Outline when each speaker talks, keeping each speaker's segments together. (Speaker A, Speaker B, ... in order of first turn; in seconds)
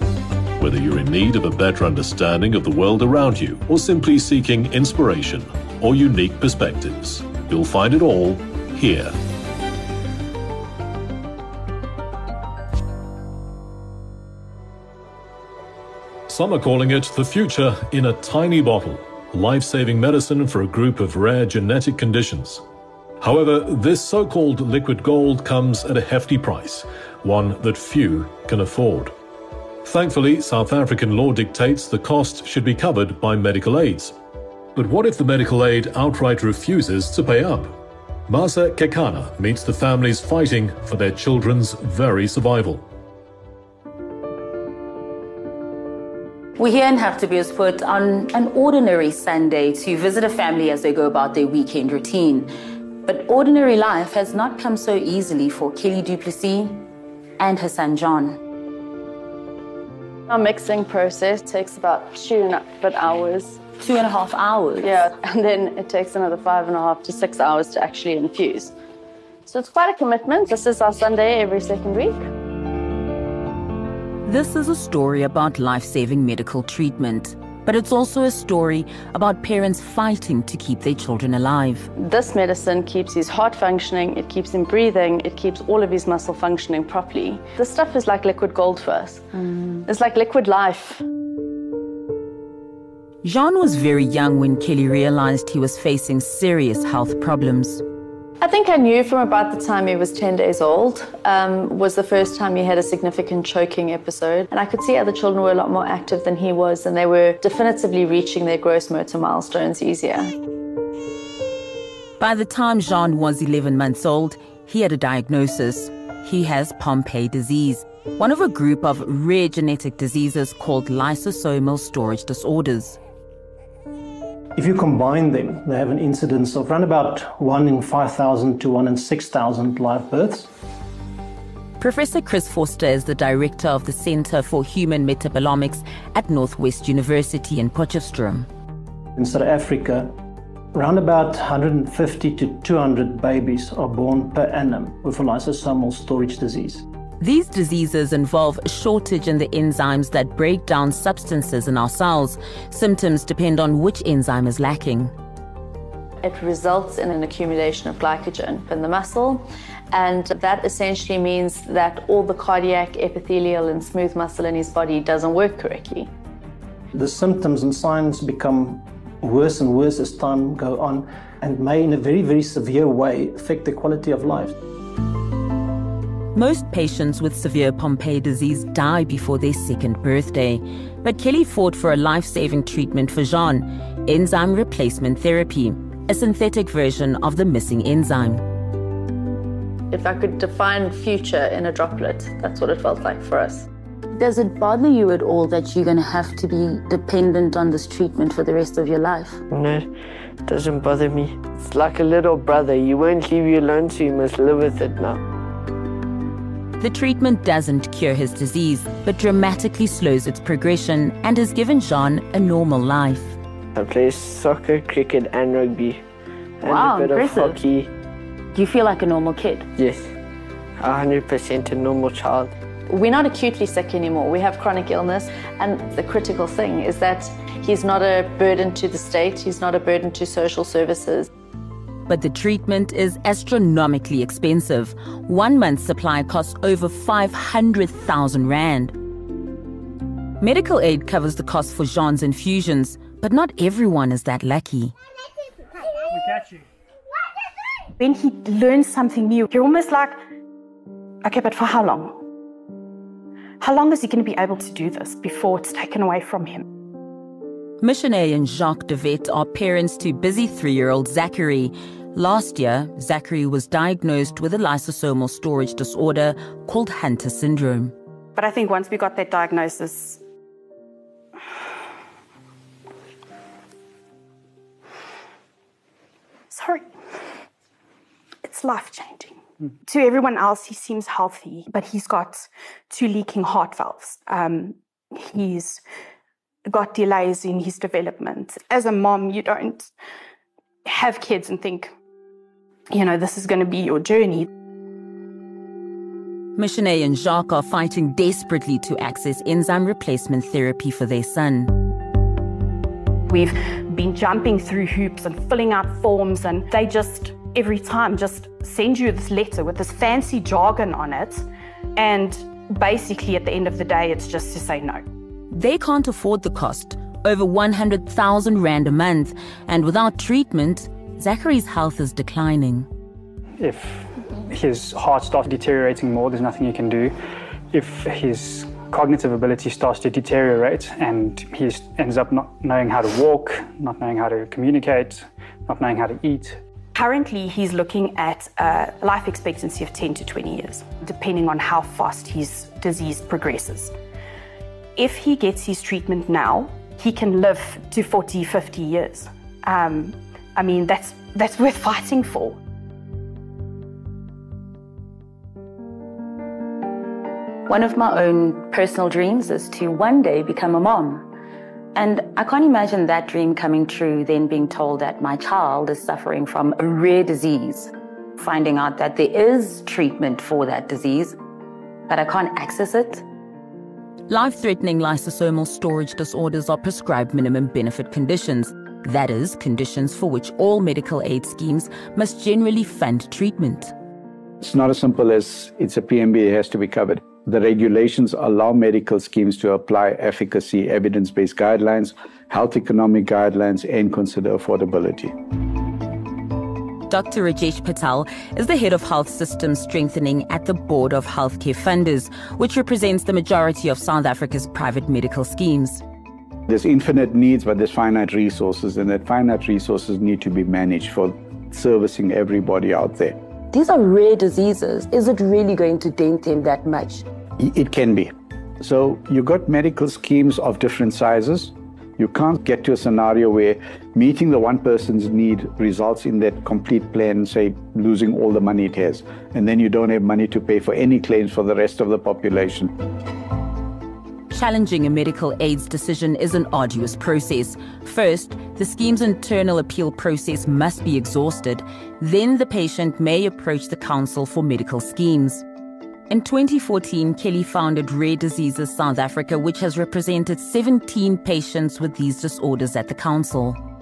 Speaker A: 0.6-9.1, 16.3-22.6, 23.2-29.1, 29.8-34.1, 34.8-37.8, 38.3-42.8
Speaker B: 46.6-52.5, 53.1-56.8, 57.4-58.4, 63.8-64.9, 74.2-81.9, 93.2-97.8, 112.2-123.0, 131.8-138.5, 147.2-155.1, 176.3-188.4, 194.2-199.4, 206.8-213.3, 216.6-217.5, 218.5-219.6, 232.1-238.9, 240.4-244.9, 257.8-267.9, 296.6-301.7, 315.5-322.9, 357.7-361.2, 361.9-371.3, 372.1-373.2, 374.3-383.9, 397.1-406.0, 413.7-417.2, 434.5-445.6, 446.3-453.8
Speaker C: 60.3-63.6, 64.8-68.7, 69.5-72.2, 82.0-89.3, 89.8-91.0, 98.4-110.3, 156.2-166.1, 189.9-193.7, 222.9-231.3
Speaker D: 124.5-130.5, 139.2-140.1, 140.7-146.8, 166.9-174.6
Speaker E: 199.5-199.9, 200.5-205.2, 213.7-216.0, 216.6-217.9, 219.8-220.0, 220.8-222.5
Speaker F: 248.0-250.2, 251.2-252.2, 253.6-256.6, 268.4-270.2, 276.5-276.9, 278.4-285.8, 286.6-289.9, 290.8-291.9, 292.9-294.5, 303.3-315.0, 336.9-343.9, 344.9-352.6
Speaker G: 323.6-327.2, 327.7-336.6
Speaker H: 384.6-395.3, 406.7-413.4, 417.6-432.9